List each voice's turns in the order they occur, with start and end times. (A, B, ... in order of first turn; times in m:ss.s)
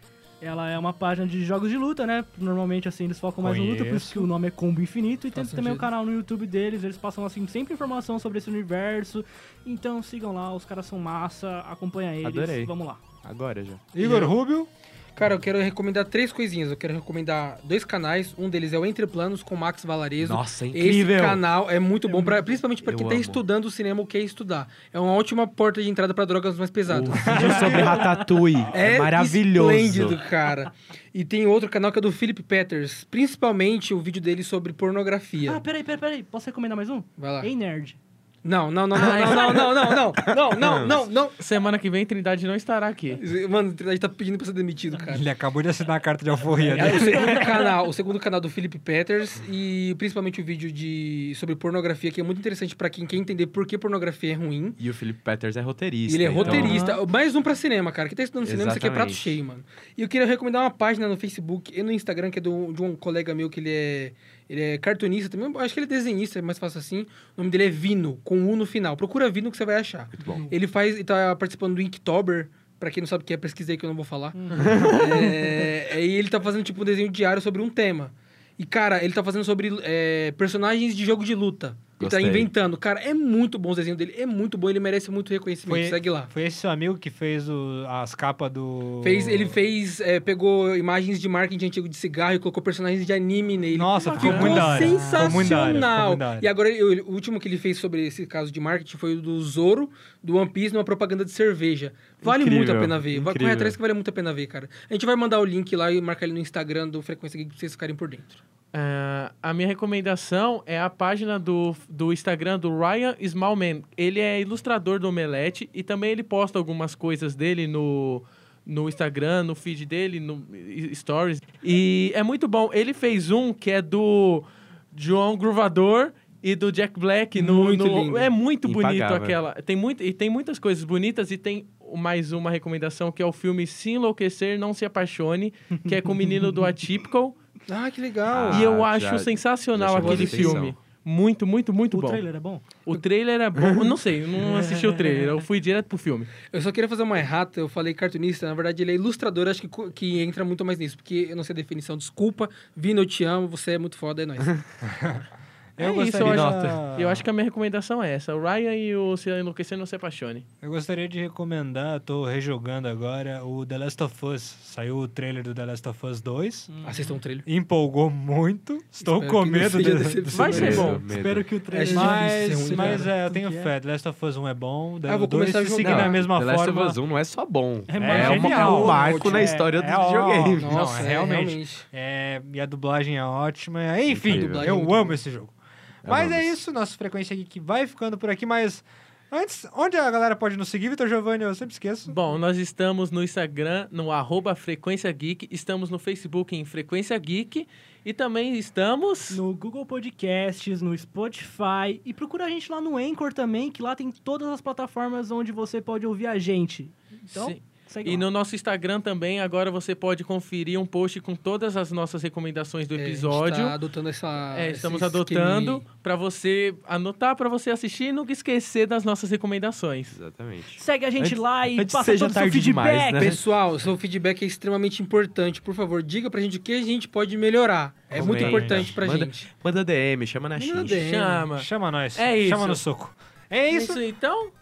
0:00.4-0:13.0 A
0:03.4-0:04.3 B
0:05.3-0:05.9 C
0:12.2-0:13.9 D
0:13.9-0:14.7 B
0:14.0-0:14.4 C
0:15.2-0:28.0 C
0:20.2-0:21.4 D
0:22.1-0:22.5 A
0:22.8-0:23.4 D
0:26.9-0:30.2 D
0:27.2-0:27.6 B
0:27.3-0:28.4 A
0:28.7-0:35.6 C
0:35.4-0:38.0 A
0:37.2-0:37.5 C
0:38.4-0:41.4 C
0:39.0-0:39.6 E
0:39.0-0:39.3 A
0:39.1-0:41.0 D
0:41.4-0:43.2 E
0:43.2-0:45.2 C
0:45.1-0:47.6 B
0:46.6-0:47.7 A
0:46.8-0:54.8 C
0:54.8-0:56.8 D
0:56.1-1:26.3 C
0:56.4-0:57.0 A
0:58.4-0:59.4 D
1:10.2-1:10.5 D
1:10.2-1:10.5 A
1:14.4-1:15.7 A
1:14.6-1:15.2 D
1:22.0-1:22.5 D
1:25.7-1:29.6 B
1:29.0-1:48.4 C
1:33.7-1:36.5 B
1:34.0-1:35.4 E
1:42.2-1:43.8 D
1:48.7-2:17.4 E
2:07.4-2:08.3 C
2:08.6-2:09.4 D
2:17.7-2:18.8 C
2:18.3-2:20.8 D
2:18.5-2:22.2 E
2:20.0-2:20.6 C
2:21.9-2:22.6 A
2:22.8-2:26.3 E
2:23.6-2:23.9 D
2:24.4-2:25.3 A
2:26.5-2:34.6 C
2:34.8-2:35.2 B
2:35.8-2:37.2 B
2:35.8-2:40.4 E
2:36.2-2:36.9 D
2:40.6-2:46.7 B
2:46.7-2:47.2 A
2:46.8-2:47.5 C
2:47.5-2:50.9 B
2:49.0-2:51.0 C
2:50.3-2:51.0 E
2:50.4-2:51.6 D
2:50.7-2:53.8 A
2:51.7-2:53.1 C
2:51.8-2:57.0 B
2:55.1-2:56.2 C
2:55.8-3:01.0 D
2:57.9-2:59.7 A
2:58.0-2:59.1 B
2:58.8-2:59.5 C
2:59.6-3:05.6 B
3:00.6-3:01.9 C
3:04.1-3:04.7 D
3:04.3-3:05.2 C
3:06.0-3:06.6 D
3:06.1-3:12.2 B
3:12.1-3:19.4 E
3:19.3-3:28.2 A
3:27.4-3:33.8 E
3:33.0-3:35.8 C
3:34.5-3:40.2 E
3:40.1-3:43.4 D
3:40.8-3:43.4 A
3:43.2-3:49.5 C
3:48.1-3:51.0 D
3:48.1-3:49.0 B
3:50.6-3:51.5 C
3:50.8-3:52.8 E
3:51.6-3:54.0 B
3:53.7-3:54.5 E